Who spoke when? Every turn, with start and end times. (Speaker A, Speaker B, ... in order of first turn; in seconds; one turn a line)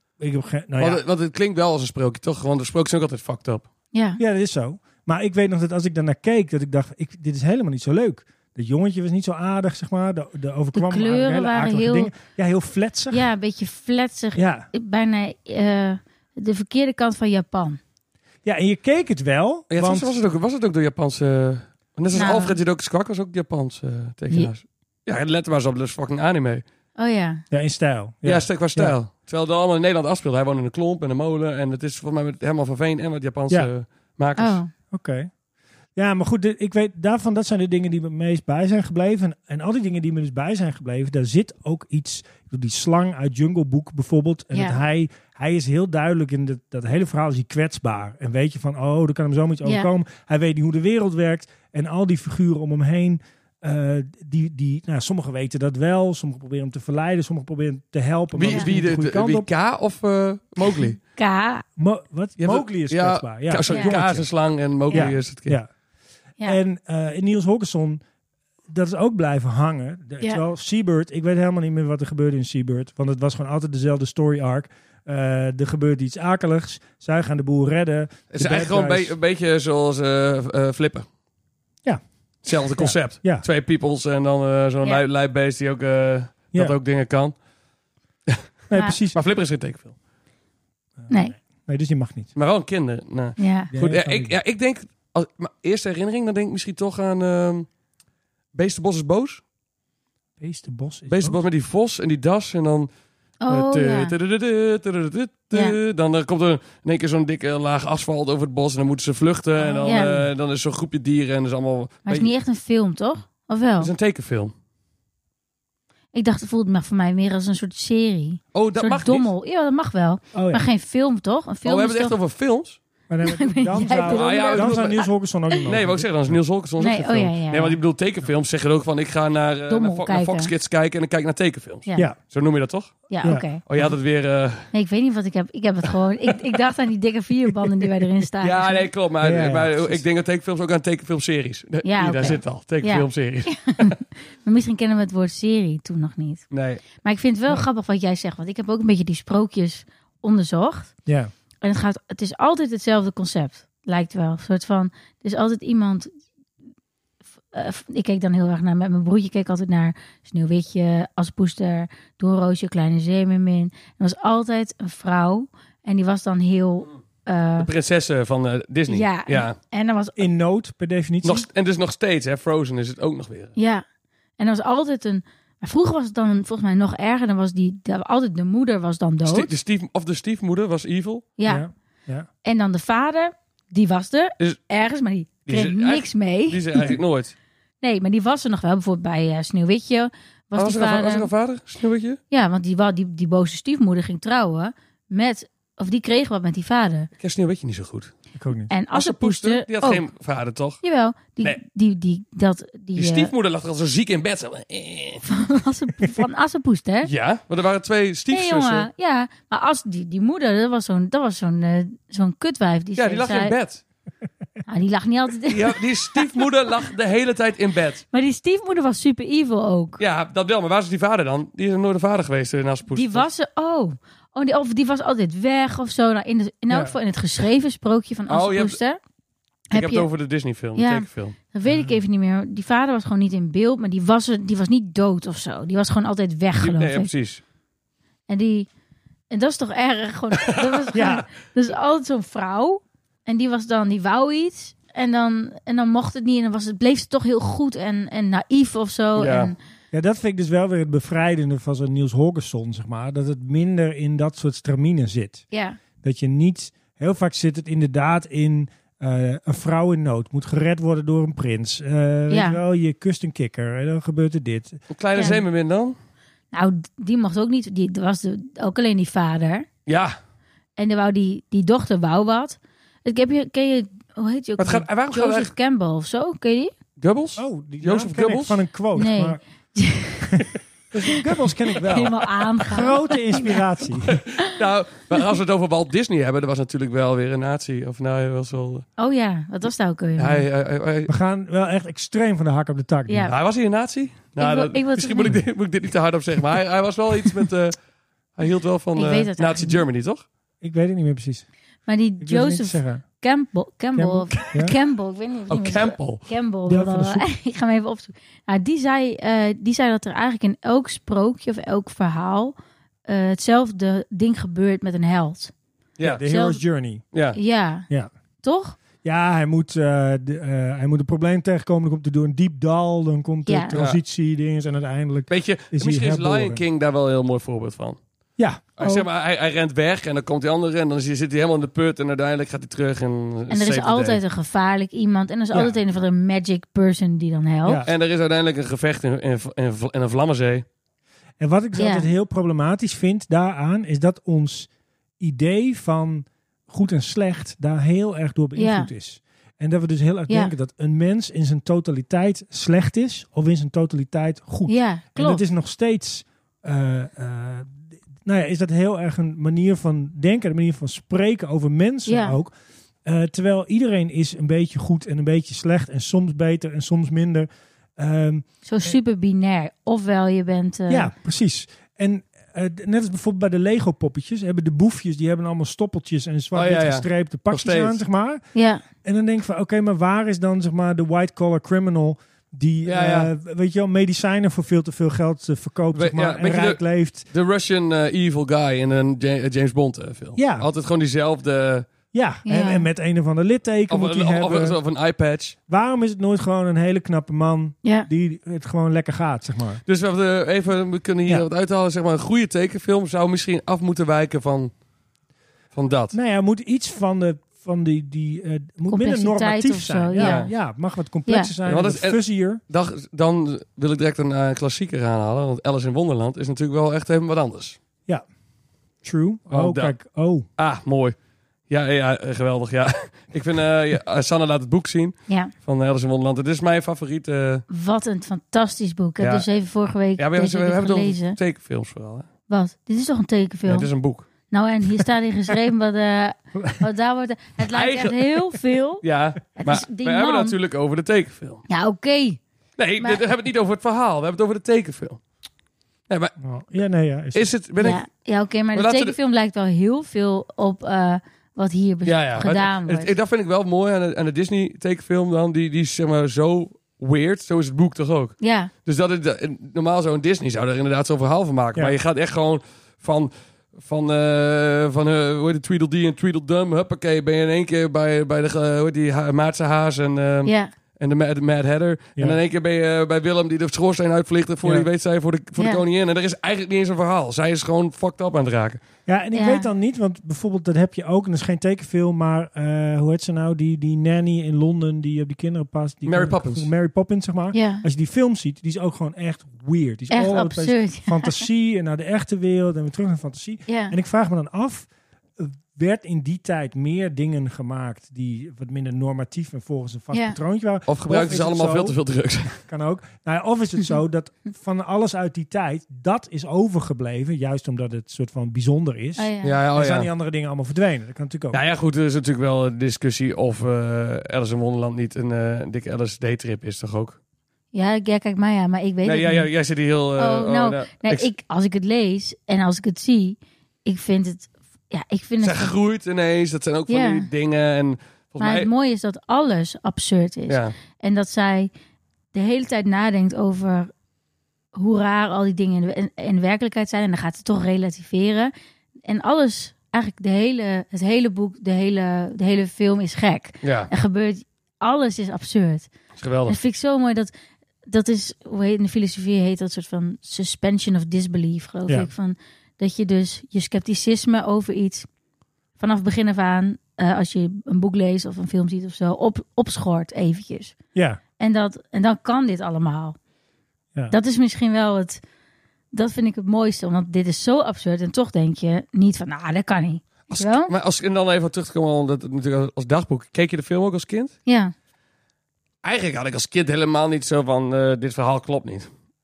Speaker A: 0.2-1.0
Speaker B: 0.8-3.6
Speaker C: 3.9-4.2
Speaker A: 4.2-13.2
Speaker C: 10.7-12.1
Speaker C: 13.1-17.8
Speaker A: 14.3-14.7
Speaker A: 18.4-20.1
Speaker B: 19.7-26.6
Speaker C: 22.1-22.6
Speaker C: 27.0-27.4
Speaker A: 27.5-28.9
Speaker B: 28.2-34.6
Speaker C: 34.4-34.7
Speaker A: 34.9-35.3
Speaker A: 35.9-59.5
Speaker C: 44.5-44.8
Speaker B: 58.3-61.0
Speaker C: 58.5-58.7
Speaker C: 61.1-61.6
Speaker A: 61.8-64.3
Speaker B: 62.4-65.5
Speaker C: 63.7-63.9
Speaker A: 64.9-65.7
Speaker A: 66.4-68.0
Speaker A: 68.7-79.1
Speaker B: 78.3-81.0
Speaker B: 82.4-87.3
Speaker A: 82.8-83.4
Speaker A: 88.7-89.2
Speaker B: 89.1-89.9
Speaker A: 91.0-92.3
Speaker C: 91.1-91.3
Speaker B: 92.3-97.7
Speaker C: 93.4-93.7
Speaker A: 93.7-94.3
Speaker B: 98.5-99.4
Speaker A: 100.4-101.4
Speaker B: 101.1-102.9
Speaker C: 103.4-104.1
Speaker B: 103.5-112.3
Speaker A: 109.6-110.3
Speaker C: 109.8-110.1
Speaker C: 112.0-113.9
Speaker B: 113.8-114.5
Speaker C: 116.1-122.1
Speaker B: 118.5-119.3
Speaker A: 120.3-120.6
Speaker B: 121.6-122.8
Speaker A: 123.1-126.4
Speaker C: 123.2-125.1
Speaker B: 123.9-125.1
Speaker B: 125.6-134.7
Speaker C: 126.8-127.8
Speaker C: 129.7-130.5
Speaker C: 133.1-133.6
Speaker A: 133.2-133.9
Speaker C: 134.7-138.9
Speaker B: 138.4-143.9
Speaker A: 139.2-140.0
Speaker C: 141.8-150.9
Speaker B: 146.5-146.8
Speaker A: 151.1-151.3
Speaker C: 151.6-156.1
Speaker C: 157.5-167.7
Speaker B: 167.6-169.6
Speaker C: 168.9-170.3
Speaker A: 170.2-171.5
Speaker B: 171.2-173.5
Speaker C: 173.6-173.8
Speaker C: 174.4-179.5
Speaker B: 179.2-181.3
Speaker C: 181.4-181.7
Speaker A: 181.4-182.3
Speaker C: 182.4-186.9
Speaker B: 185.5-187.3
Speaker C: 187.8-191.3
Speaker B: 190.6-192.2
Speaker C: 192.3-197.1
Speaker B: 197.2-198.1
Speaker A: 198.3-198.7
Speaker C: 198.7-200.0
Speaker B: 198.9-200.8
Speaker C: 200.8-203.3
Speaker B: 202.9-205.2
Speaker C: 205.2-207.1
Speaker B: 207.0-208.9
Speaker C: 208.3-213.5
Speaker B: 213.0-213.8
Speaker C: 214.7-216.4
Speaker B: 215.5-218.0
Speaker C: 218.1-220.0
Speaker B: 220.0-223.3
Speaker C: 222.9-229.0
Speaker A: 226.7-226.9
Speaker B: 228.3-228.8
Speaker C: 229.7-230.1
Speaker B: 229.7-231.3
Speaker C: 230.8-237.1
Speaker A: 231.6-231.9
Speaker B: 236.6-237.4
Speaker C: 238.3-238.7
Speaker C: 239.3-249.6
Speaker B: 240.4-240.8
Speaker A: 240.9-241.2
Speaker B: 249.2-249.5
Speaker A: 249.9-255.4
Speaker C: 255.5-255.8
Speaker A: 256.0-264.8
Speaker C: 262.3-262.6
Speaker B: 264.9-265.9
Speaker C: 265.1-265.4
Speaker C: 266.5-269.7
Speaker B: 269.9-270.1
Speaker C: 270.8-276.7
Speaker B: 274.6-275.5
Speaker B: 277.0-278.6
Speaker A: 277.4-279.4
Speaker C: 278.9-280.4
Speaker A: 280.3-284.2
Speaker C: 281.8-283.6
Speaker B: 284.1-288.9
Speaker C: 289.0-290.4
Speaker B: 290.2-291.1
Speaker A: 291.1-293.3
Speaker C: 293.1-293.3
Speaker B: 293.3-297.8
Speaker C: 294.4-295.4
Speaker B: 298.3-300.2
Speaker C: 298.9-299.8
Speaker A: 300.6-301.4
Speaker C: 301.9-312.5
Speaker A: 302.2-303.0
Speaker A: 303.9-304.7
Speaker B: 305.5-306.3
Speaker A: 306.7-307.2
Speaker C: 313.1-315.5
Speaker B: 316.0-316.2
Speaker A: 316.0-317.0
Speaker C: 316.3-316.6
Speaker B: 317.1-317.4
Speaker C: 317.3-317.9
Speaker C: 318.4-318.8
Speaker A: 319.0-326.6
Speaker C: 323.4-323.7
Speaker B: 323.7-324.0
Speaker B: 325.3-328.0
Speaker A: 328.4-328.7
Speaker B: 328.8-334.2
Speaker C: 333.5-337.8
Speaker A: 335.5-335.8
Speaker A: 337.6-337.9
Speaker B: 337.8-340.6
Speaker A: 341.4-344.7
Speaker C: 341.8-342.1
Speaker A: 345.2-362.5
Speaker C: 348.6-348.9
Speaker C: 354.7-355.4
Speaker C: 362.1-362.4
Speaker A: 363.0-368.9
Speaker C: 368.6-371.1
Speaker A: 370.9-378.4
Speaker B: 376.5-378.0
Speaker C: 378.5-378.8
Speaker A: 379.0-387.2
Speaker B: 382.9-383.3
Speaker B: 385.9-391.9
Speaker A: 390.4-390.7
Speaker A: 392.1-394.8
Speaker C: 392.4-392.9
Speaker B: 393.9-395.6
Speaker A: 395.7-399.8
Speaker B: 399.9-404.7
Speaker B: 405.7-406.1
Speaker A: 406.1-412.6
Speaker C: 408.9-410.5
Speaker B: 410.2-410.5
Speaker C: 411.3-411.5
Speaker B: 411.6-417.8
Speaker A: 419.0-420.5
Speaker B: 419.5-419.9
Speaker B: 420.6-421.1
Speaker B: 421.7-427.6
Speaker C: 427.7-431.4
Speaker B: 429.2-429.5
Speaker B: 430.2-432.3
Speaker C: 432.5-433.9
Speaker B: 433.7-434.3
Speaker C: 434.5-439.0
Speaker B: 437.7-438.4
Speaker B: 439.0-441.6
Speaker C: 439.5-440.6
Speaker C: 441.7-442.4
Speaker B: 442.8-445.2
Speaker C: 443.0-443.2
Speaker B: 446.1-446.3
Speaker A: 446.4-447.5
Speaker B: 447.3-448.0
Speaker C: 447.8-453.1
Speaker B: 448.7-449.1
Speaker B: 452.0-478.8
Speaker C: 458.4-458.7
Speaker C: 470.4-470.7
Speaker C: 475.6-475.8
Speaker A: 479.1-502.0
Speaker C: 479.3-479.7
Speaker B: 486.1-486.7
Speaker C: 487.5-487.8
Speaker C: 490.1-491.4
Speaker C: 493.7-493.9
Speaker C: 500.1-500.4
Speaker B: 500.9-502.6
Speaker A: 502.6-511.6
Speaker C: 509.2-509.5
Speaker B: 509.4-510.1
Speaker B: 511.5-517.2
Speaker C: 517.7-519.5
Speaker B: 519.0-521.3
Speaker C: 520.2-525.7
Speaker B: 525.4-528.7
Speaker C: 526.9-527.3
Speaker C: 528.4-531.7
Speaker B: 530.5-530.7
Speaker C: 532.3-533.9
Speaker C: 534.7-538.5
Speaker C: 539.0-545.9
Speaker B: 543.6-543.9
Speaker B: 546.1-546.5
Speaker C: 546.5-547.3
Speaker C: 547.9-555.1
Speaker C: 555.8-560.8
Speaker A: 560.9-561.2
Speaker C: 561.4-563.2
Speaker C: 564.1-565.2
Speaker C: 565.9-570.7
Speaker B: 570.3-574.3
Speaker C: 574.5-574.7
Speaker B: 575.8-578.9